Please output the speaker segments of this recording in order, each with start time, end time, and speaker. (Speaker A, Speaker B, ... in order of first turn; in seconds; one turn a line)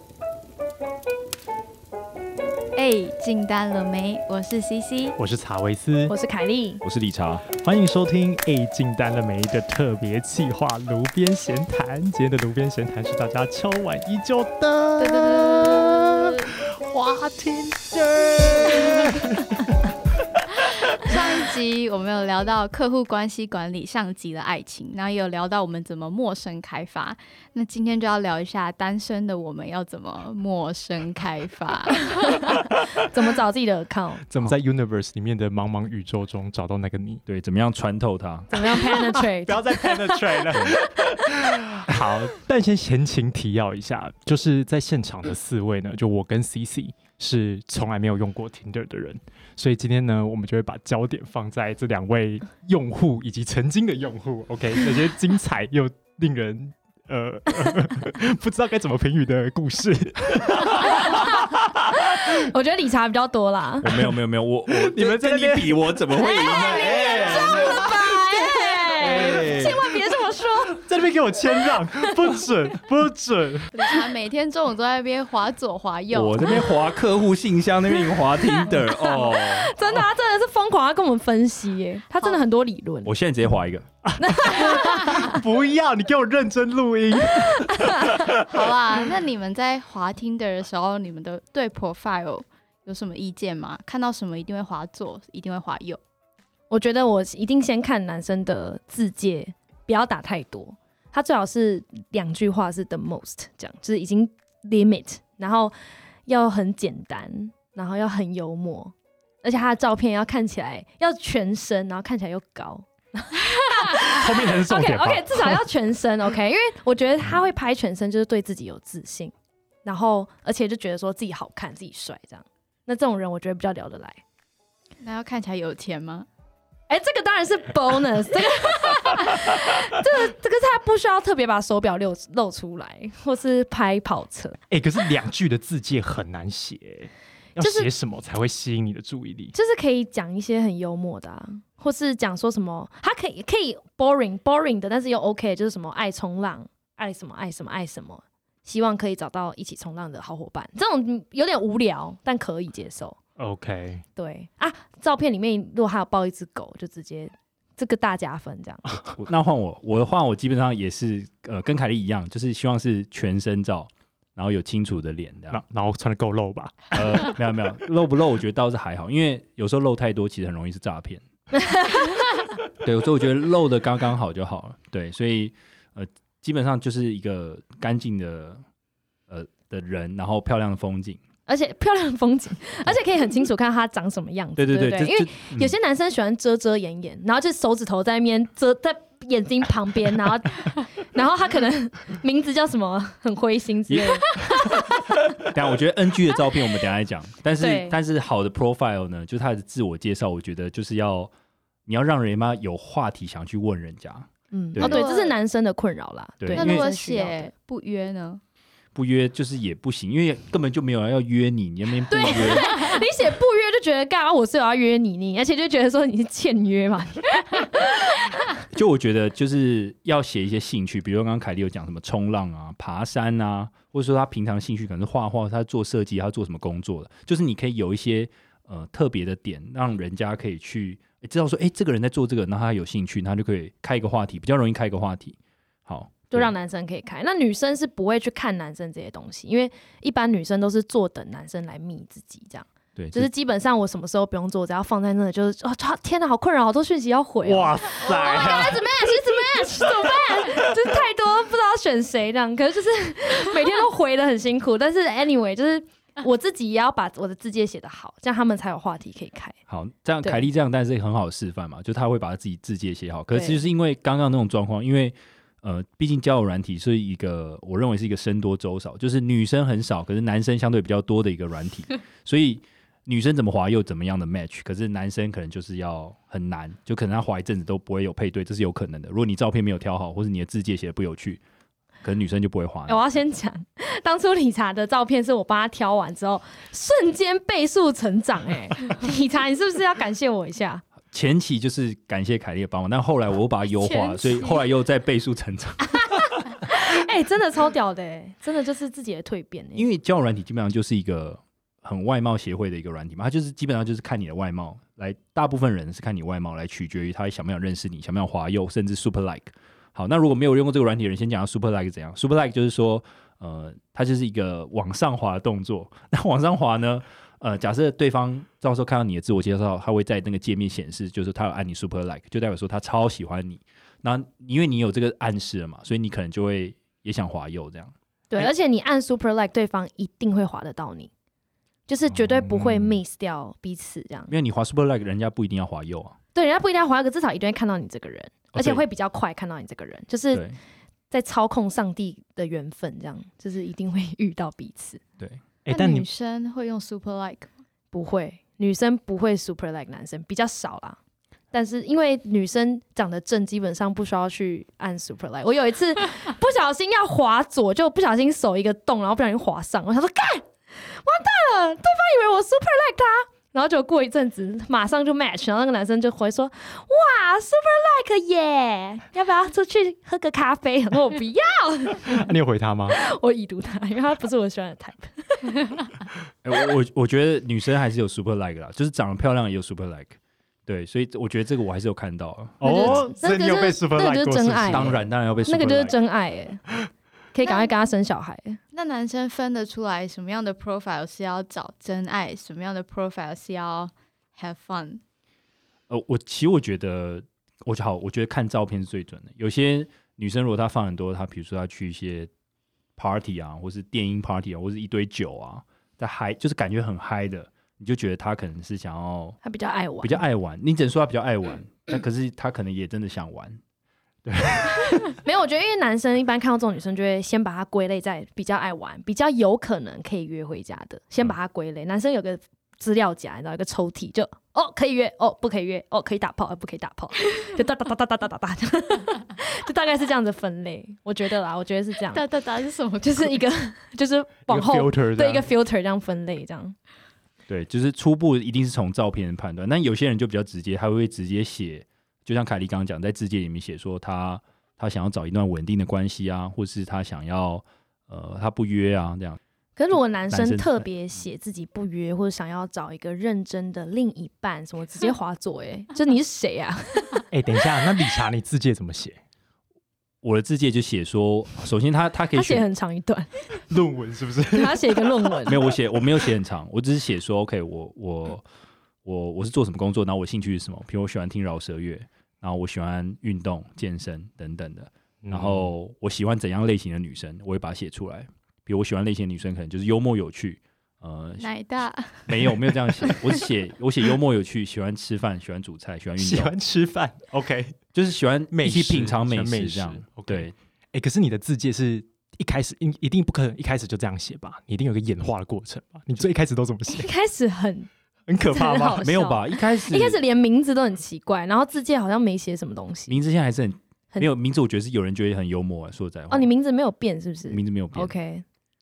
Speaker A: 2.8-5.2
Speaker B: 5.2-6.1
Speaker C: 6.1-6.8
Speaker D: 6.8-7.4
Speaker B: 7.6-19.6
Speaker A: 15.1-15.7
Speaker A: 20.9-32.4
Speaker C: 32.9-34.2
Speaker B: 34.3-37.2
Speaker D: 37.2-38.8
Speaker C: 38.5-40.8
Speaker B: 38.8-61.2
Speaker C: 60.7-63.9
Speaker D: 63.8-67.9
Speaker B: 64.7-69.8
Speaker C: 66.2-70.8
Speaker D: 69.0-69.8
Speaker B: 70.7-73.7
Speaker C: 71.6-72.0
Speaker A: 73.7-76.8
Speaker D: 76.1-79.7
Speaker C: 78.1-83.1
Speaker D: 83.0-83.9
Speaker B: 84.0-88.3
Speaker C: 84.2-85.4
Speaker C: 87.5-88.2
Speaker A: 88.1-96.0
Speaker C: 96.7-105.7
Speaker C: 106.2-119.3
Speaker B: 113.8-115.6
Speaker C: 119.8-124.2
Speaker A: 125.0-126.3
Speaker C: 126.9-134.6
Speaker B: 134.7-139.5
Speaker C: 137.6-137.9
Speaker C: 139.5-153.2
Speaker B: 153.4-154.0
Speaker C: 154.2-158.8
Speaker D: 159.2-165.6
Speaker B: 165.5-167.4
Speaker D: 166.9-171.2
Speaker C: 171.6-172.1
Speaker D: 172.8-178.6
Speaker D: 179.3-181.2
Speaker C: 181.5-194.8
Speaker D: 184.6-185.8
Speaker D: 193.9-194.3
Speaker D: 195.4-201.3
Speaker C: 197.6-198.0
Speaker D: 201.8-205.0
Speaker C: 204.5-207.5
Speaker A: 204.8-205.3
Speaker D: 206.4-206.8
Speaker A: 206.5-208.4
Speaker D: 208.9-212.8
Speaker C: 212.1-218.5
Speaker D: 218.7-236.5
Speaker C: 236.3-259.6
Speaker D: 242.9-243.3
Speaker B: 247.4-250.3
Speaker D: 259.7-281.4
Speaker C: 263.3-263.6
Speaker D: 282.0-283.1
Speaker C: 282.9-290.8
Speaker D: 291.1-296.2
Speaker A: 293.8-294.6
Speaker C: 296.6-299.9
Speaker D: 299.8-328.5
Speaker C: 328.3-331.1
Speaker C: 331.9-334.3
Speaker B: 332.3-332.9
Speaker D: 334.3-336.1
Speaker C: 336.3-340.4
Speaker D: 338.5-338.8
Speaker C: 341.1-345.0
Speaker B: 345.6-346.1
Speaker A: 345.7-347.5
Speaker C: 347.9-351.0
Speaker C: 351.5-372.3
Speaker B: 372.1-373.0
Speaker C: 372.9-375.7
Speaker D: 376.4-383.0
Speaker B: 382.6-385.0
Speaker C: 382.6-384.9
Speaker D: 384.7-385.9
Speaker C: 385.4-386.6
Speaker C: 387.3-388.6
Speaker A: 387.4-387.7
Speaker A: 388.7-395.0
Speaker D: 395.9-402.3
Speaker D: 403.0-409.4
Speaker C: 409.4-410.2
Speaker D: 410.0-413.6
Speaker D: 414.2-414.8
Speaker C: 415.0-432.2
Speaker A: 432.1-433.4
Speaker C: 433.0-436.7
Speaker B: 434.5-435.5
Speaker D: 437.5-449.4
Speaker C: 449.8-457.2
Speaker D: 450.3-450.9
Speaker B: 457.3-459.2
Speaker D: 460.2-462.6
Speaker C: 462.3-463.3
Speaker B: 463.7-465.4
Speaker C: 464.5-465.6
Speaker D: 465.4-468.4
Speaker D: 469.0-481.5
Speaker B: 475.2-475.7
Speaker A: 481.4-483.4
Speaker D: 482.2-486.5
Speaker B: 486.2-487.8
Speaker D: 487.9-490.5
Speaker B: 488.5-497.1
Speaker C: 496.9-503.2
Speaker B: 498.3-499.1
Speaker D: 499.0-500.2
Speaker D: 503.1-506.5
Speaker C: 506.3-508.4
Speaker D: 507.5-508.1